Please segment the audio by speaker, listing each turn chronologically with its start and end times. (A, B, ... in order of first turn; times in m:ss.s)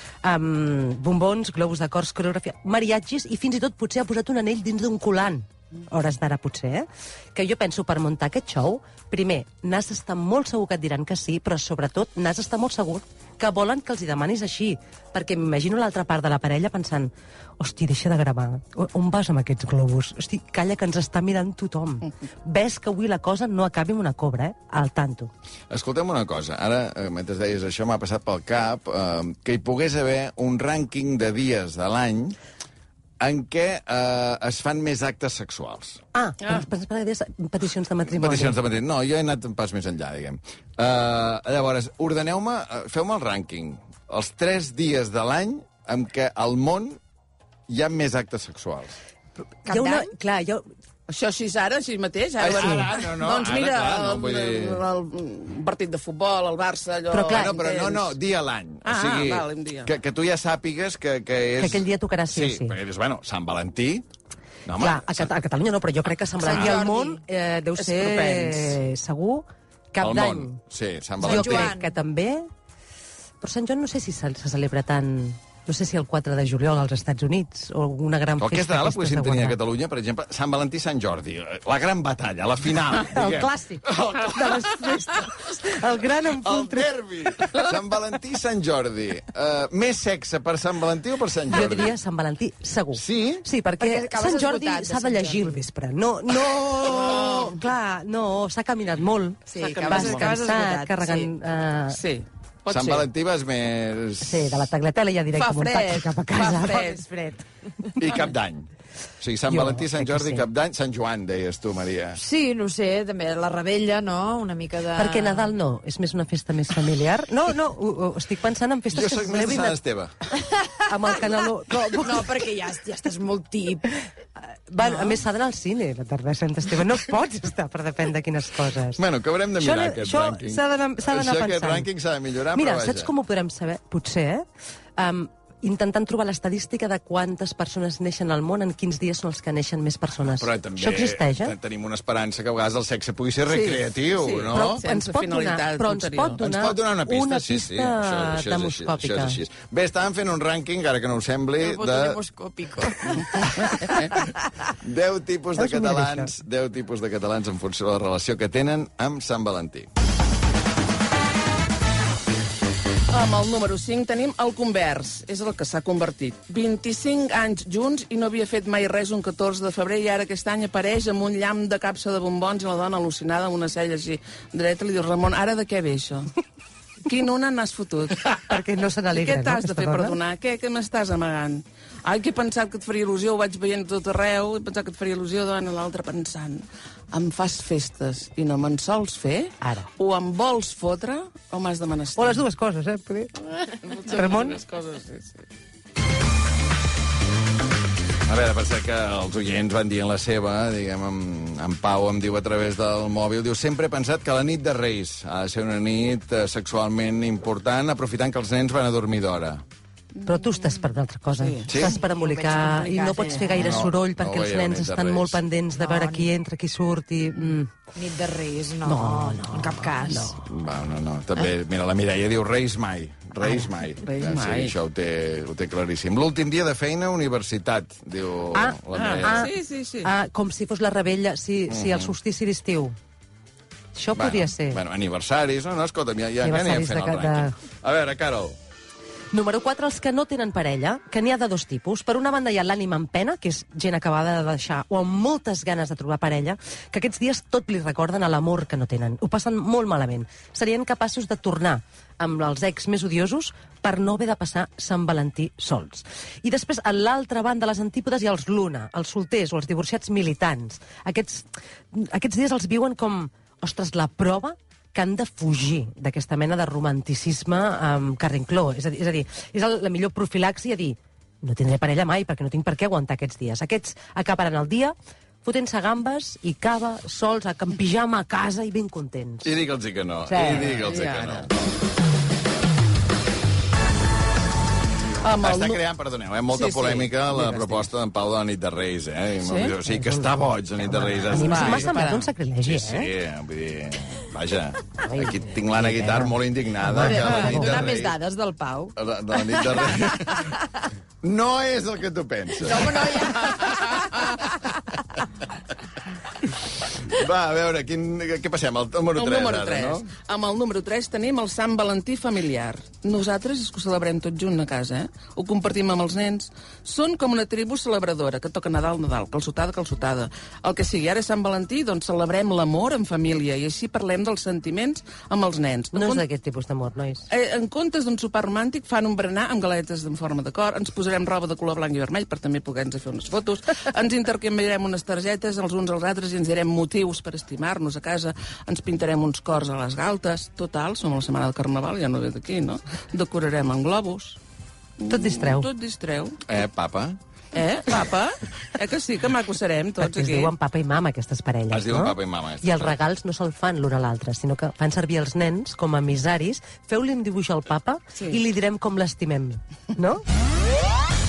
0:00.2-0:25.3 A
0:25.7-0:32.4 B
0:33.2-0:36.0 B
0:36.1-0:38.6 A
0:38.1-0:47.0 B
0:47.7-0:48.9 B
0:49.7-0:50.7 A
0:49.7-0:50.1 C
0:51.1-0:58.2 D
0:52.4-0:54.8 B
0:57.1-0:57.5 A
0:57.3-1:04.1 B
0:58.8-0:59.9 D
1:01.6-1:02.8 A
1:04.7-1:05.3 B
1:04.8-1:10.6 A
1:06.4-1:07.2 C
1:07.8-1:08.8 D
1:10.0-1:11.7 B
1:11.2-1:11.9 C
1:11.2-1:12.5 A
1:13.4-1:19.6 A
1:18.4-1:25.6 B
1:23.0-1:26.9 A
1:26.3-1:32.0 B
1:31.5-1:42.0 A
1:33.0-1:33.4 B
1:33.8-1:35.6 C
1:39.5-1:41.3 C
1:39.6-1:40.4 D
1:41.9-1:43.1 D
1:42.7-1:44.7 B
1:44.2-1:47.0 A
1:45.3-1:47.1 D
1:48.0-1:48.7 B
1:49.2-1:52.2 B
1:49.5-1:50.4 A
1:52.2-1:55.5 C
1:55.0-1:59.8 A
1:58.9-2:00.2 B
2:00.5-2:00.7 C
2:00.9-2:02.3 A
2:02.0-2:03.8 C
2:04.7-2:09.0 A
2:04.9-2:05.2 C
2:09.0-2:13.1 B
2:09.6-2:11.9 A
2:12.5-2:14.4 A
2:15.0-2:21.6 A
2:20.3-2:24.8 B
2:23.5-2:26.4 D
2:24.5-2:29.4 A
2:26.4-2:32.2 B
2:31.6-2:34.3 C
2:33.2-2:34.1 D
2:34.8-2:39.9 B
2:35.6-2:36.3 A
2:43.1-2:56.3 D
2:57.0-2:58.6 D
2:58.5-3:00.2 A
2:59.1-3:12.4 D
3:09.6-3:09.9 A
3:12.2-3:13.4 A
3:13.7-3:15.5 D
3:14.0-3:14.6 A
3:18.3-3:29.6 B
3:30.2-3:30.8 D
3:30.3-3:37.7 A
3:31.3-3:31.8 D
3:31.7-3:32.0 B
3:31.7-3:33.8 C
3:33.6-3:35.4 B
3:35.8-3:36.3 C
3:38.0-3:40.4 C
3:38.8-3:40.4 A
3:40.4-3:49.5 B
3:44.0-3:44.7 D
3:48.5-3:49.5 A
3:48.9-3:50.1 D
3:50.0-3:53.0 A
3:51.7-3:52.1 B
3:54.0-3:54.8 A
3:54.2-3:58.6 B
3:56.4-3:57.6 A
3:59.3-4:39.5 A
4:39.4-4:41.6 B
4:40.3-4:40.7 A
4:40.3-4:41.5 D
4:45.2-4:45.8 D
4:45.4-4:52.0 B
4:46.5-4:47.9 D
4:49.4-4:49.8 D
4:49.9-4:53.1 A
4:51.3-4:52.3 D
4:52.6-4:58.2 B
4:55.0-4:57.9 A
4:56.9-5:00.6 C
4:59.0-5:00.6 B
5:01.2-5:03.7 B
5:02.6-5:04.6 C
5:06.9-5:10.1 B
5:09.2-5:26.2 D
5:25.9-5:27.2 A
5:27.3-5:44.4 D
5:45.0-5:46.4 D
5:45.1-5:45.7 A
5:46.5-5:47.2 B
5:47.5-5:50.5 D
5:50.0-6:00.2 A
5:51.7-5:53.0 B